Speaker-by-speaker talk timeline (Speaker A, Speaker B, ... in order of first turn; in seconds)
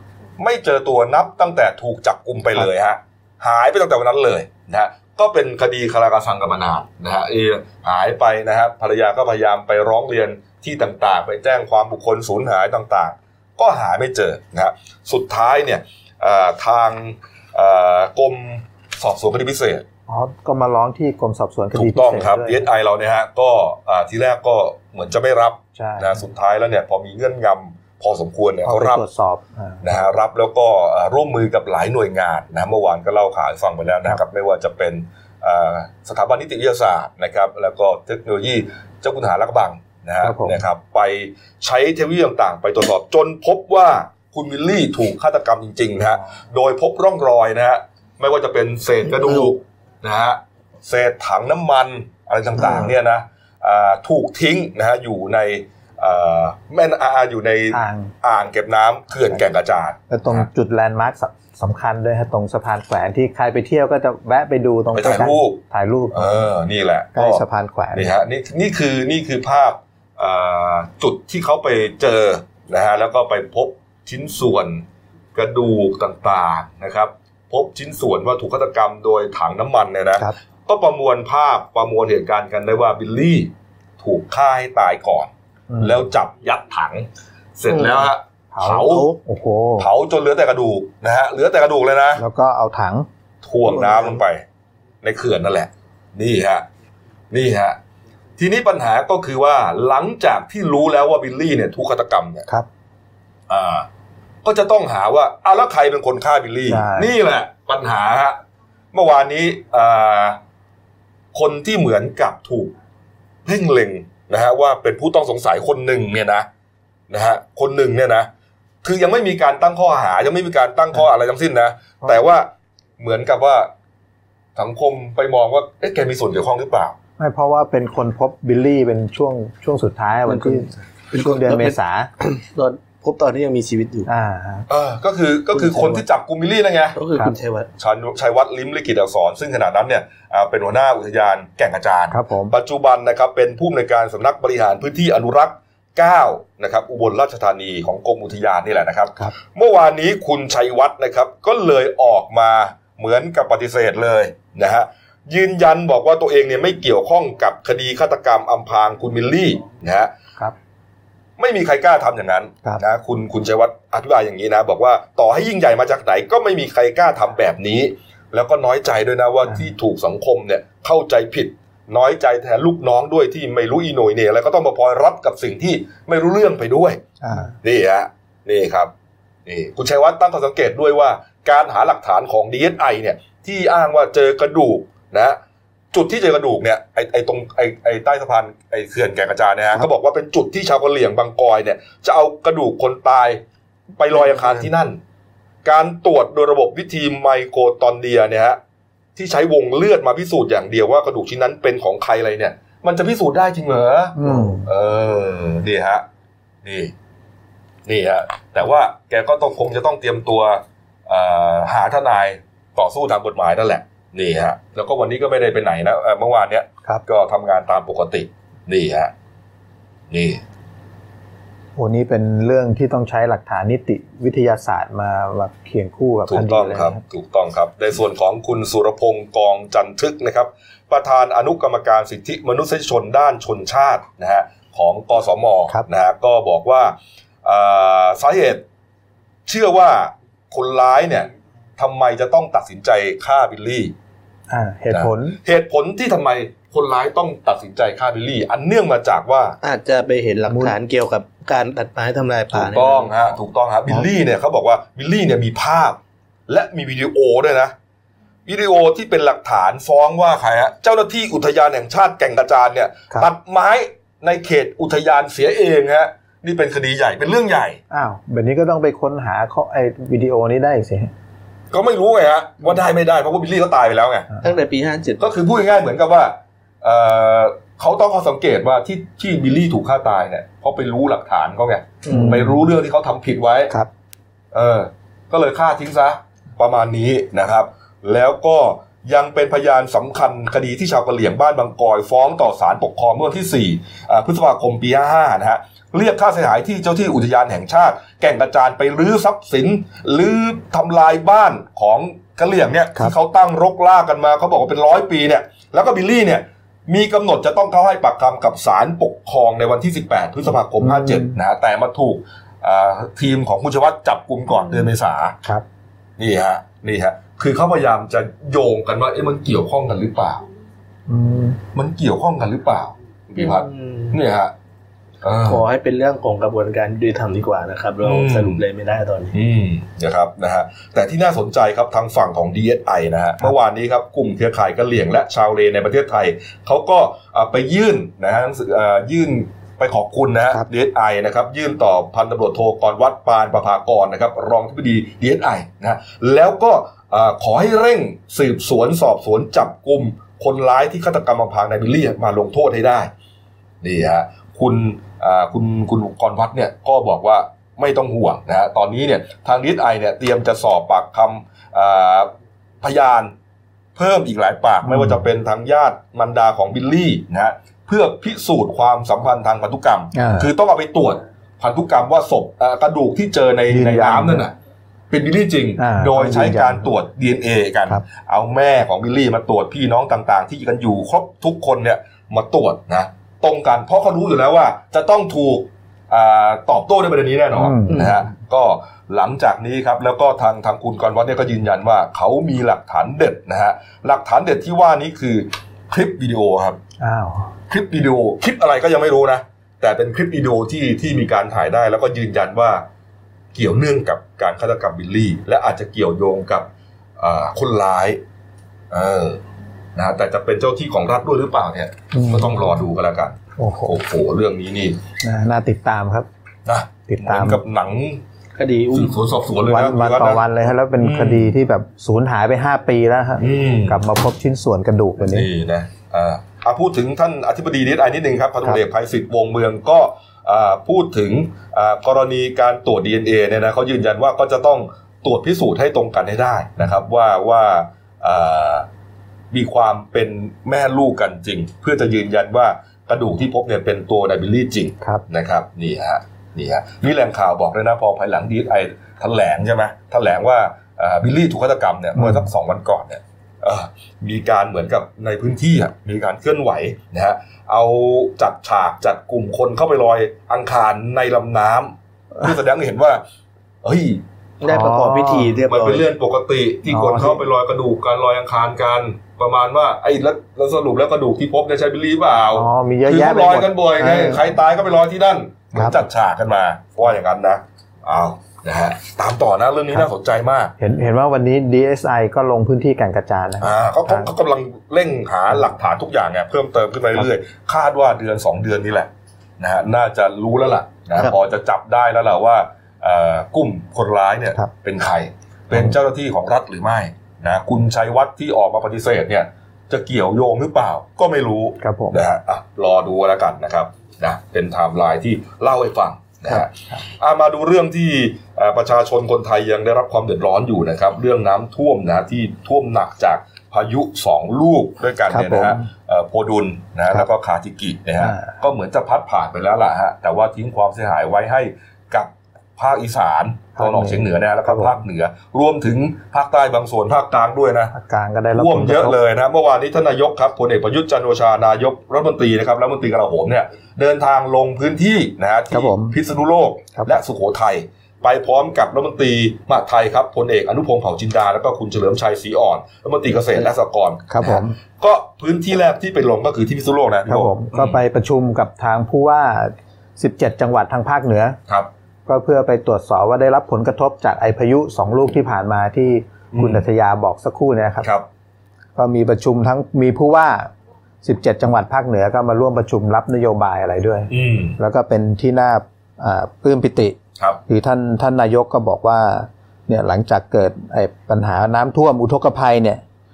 Speaker A: 0.4-19.8, 21.7-29.0, 29.8-60.5, 64.9-65.6, 66.1-74.8, 75.3-89.1, 89.8-92.2, 93.4-94.4, 95.0-96.6, 97.3-97.8, 98.4-102.5, 103.5-103.8, 104.4-108.4, 108.9-110.4, 111.3-112.7, 113.4-116.5, 117.1-118.3, 118.8-123.7, 124.5-127.0, 134.7-137.0, 137.8-160.1, 161.4-178.9, 179.4-185.4, 185.9-193.4, 194.0-195.0, 195.6-198.6, 199.2-206.0, 206.6-206.9, 207.8-219.1, 220.1-220.4, 226.3-238.6, 239.4-243.9, 244.9-249.6, 252.6-257.7, 258.4-267.8, 271.7-274.3, 275.2-283.7, 284.5-315.4, 316.2-320.4, 321.7-324.5, 325.2-325.6, 328.0-328.6, 329.3-353.1, 353.8-363.3, 363.9-374.5, 375.1-396.8, 397.7-402.8, 403.5-406.7, 407.2-408.2, 408.9-409.4, 409.9-415.0, 416.6-418.2, 418.9-420.4, 421.0-421.5, 423.4-424.0, 425.2-438.9, 439.5-463.2, 463.8-464.2, 465.7-480.7, 483.6-489.1, 489.6-527.9, 528.5-548.0, 556.5-556.8, 564.3-564.8
Speaker B: 20.1-22.6, 25.8-26.2, 28.6-30.0, 40.2-40.6, 52.6-52.9, 57.7-58.1, 60.1-66.4, 67.1-68.1, 85.7-86.0, 88.5-89.9, 92.2-93.1, 106.7-107.1, 127.2-132.1, 134.1-134.7, 142.1-142.5, 177.2-177.5, 204.2-204.7, 221.8-227.0, 244.5-245.4, 250.5-250.8, 267.9-271.1, 282.1-282.6, 310.8-311.4, 321.1-321.6, 364.8-365.2, 370.1-370.5, 373.7-374.4, 375.8-376.9, 387.5-388.3, 397.0-397.5, 412.1-412.6, 413.6-414.0, 415.2-416.3, 417.1-417.6, 419.6-425.5, 452.2-452.5, 464.6-465.6, 466.9-467.4, 472.5-474.4, 475.7-476.0, 480.8-484.3, 501.8-502.2, 506.5-507.0, 515.3-515.9, 518.2-518.5, 523.8-524.9, 527.9-529.2, 535.7-536.1, 544.3-544.7, 547.2-551.6, 552.2-558.1, 559.0-560.7, 561.2-567.1, 567.7-573.0
Speaker C: 87.7-88.0, 88.9-89.2, 93.7-94.2, 130.3-134.1, 135.5-136.0, 136.9-137.7, 194.3-194.6, 249.6-253.1, 274.4-275.2, 282.0-282.3, 323.4-324.1, 325.4-329.3, 418.6-419.1, 464.6-466.0